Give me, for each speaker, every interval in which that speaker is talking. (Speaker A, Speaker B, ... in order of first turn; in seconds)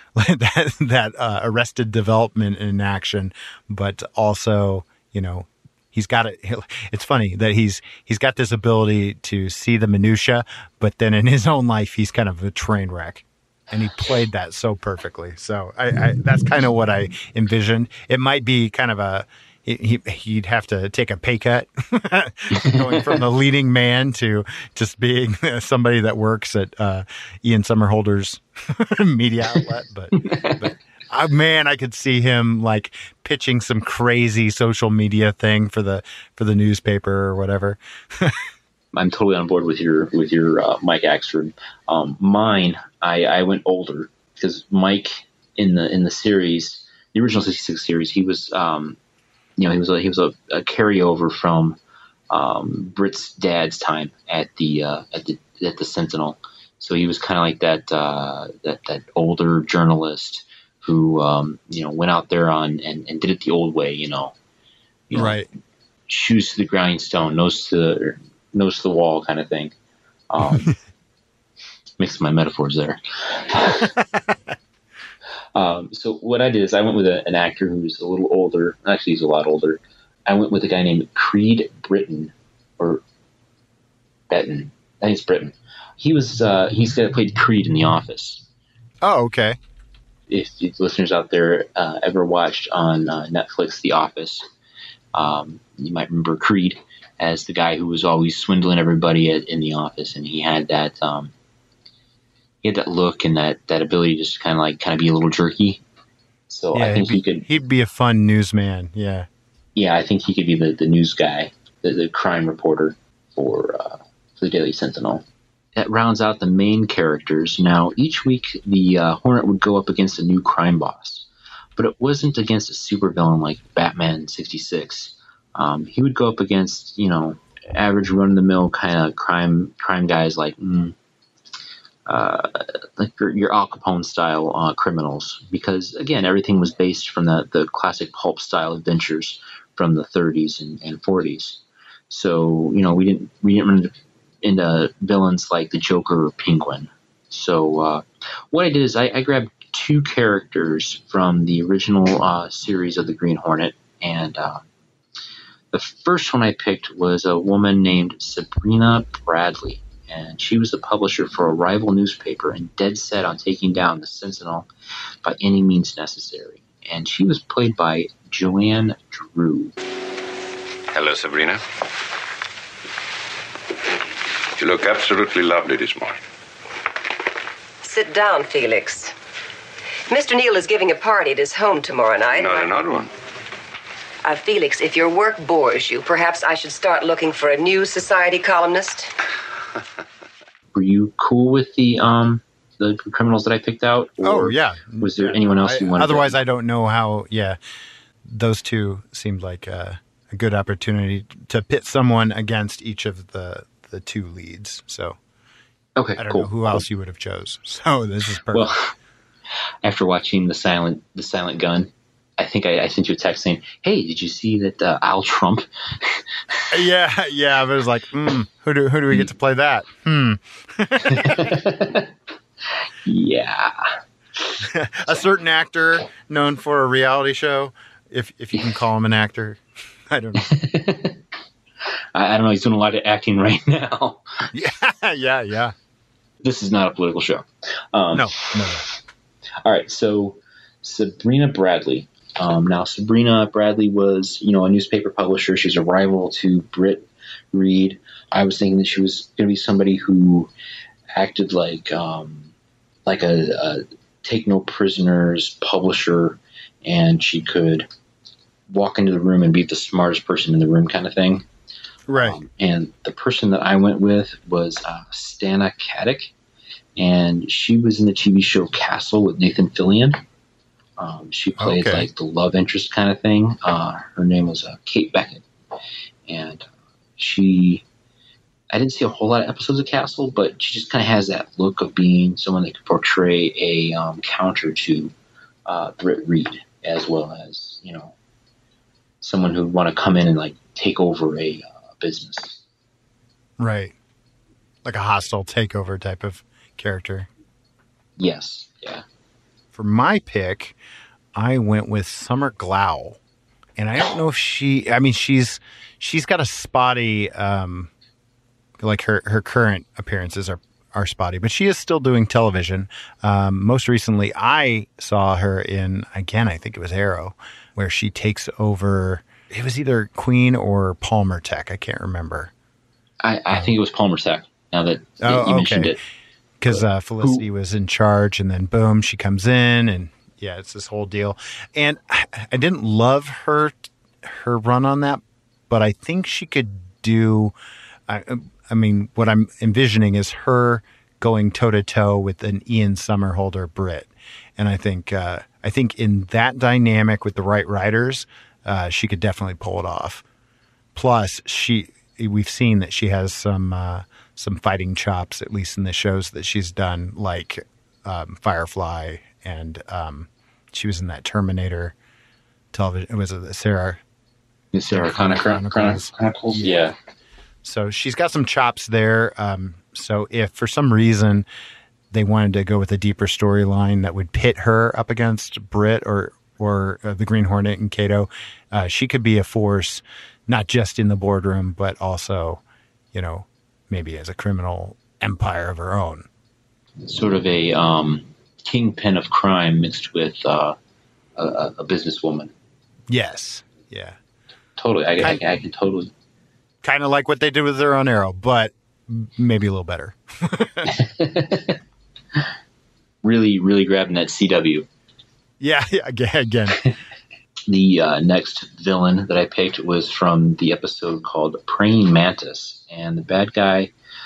Speaker A: 0.1-38.4, 65.1-65.5, 70.4-70.8, 73.8-74.3, 89.0-89.6, 106.7-109.3, 194.2-197.6, 198.2-205.2, 206.2-208.7, 216.7-221.6, 224.6-230.5, 234.5-235.7, 238.1-238.8, 262.1-262.4, 271.6-272.1, 293.6-293.9, 294.8-297.3, 299.7-300.8, 301.3-303.2, 303.8-307.9, 308.8-322.5, 325.2-325.9, 326.6-337.5, 338.1-350.2, 350.9-361.9, 362.7-364.0, 364.9-366.9, 367.6-371.4, 372.1-382.6, 383.1-386.3, 393.1-394.2, 396.8-400.9, 405.6-406.8
Speaker B: 22.5-23.2, 30.2-30.7, 38.9-49.0, 49.6-51.8, 52.3-64.3, 65.1-65.4, 66.1-69.7, 70.3-70.7, 72.0-73.9, 75.5-83.0, 84.3-88.4, 90.3-94.4, 95.1-101.3, 102.6-105.8, 106.5-107.5, 109.8-115.2, 115.8-130.9, 132.1-154.6, 155.7-164.7, 165.2-169.8, 190.7-196.4, 205.9-206.8, 208.5-208.9, 209.8-216.2, 221.0-222.1, 223.0-224.6, 230.4-231.2, 232.1-234.2, 236.4-238.8, 239.6-250.5, 251.2-252.5, 253.1-257.9, 258.7-261.5, 262.2-266.3, 267.0-270.2, 271.0-275.4, 276.3-277.8, 278.7-285.1, 285.7-288.1, 289.2-292.6, 298.2-299.0, 323.2-326.0, 326.7-327.4, 364.7-366.9, 387.0-390.8, 391.4-392.5, 394.8-396.1, 400.9-401.8, 403.2-404.9, 407.7-413.9
Speaker C: 170.9-171.6, 174.6-176.2, 182.3-183.1
Speaker D: 177.8-179.1, 180.1-182.7, 184.2-189.1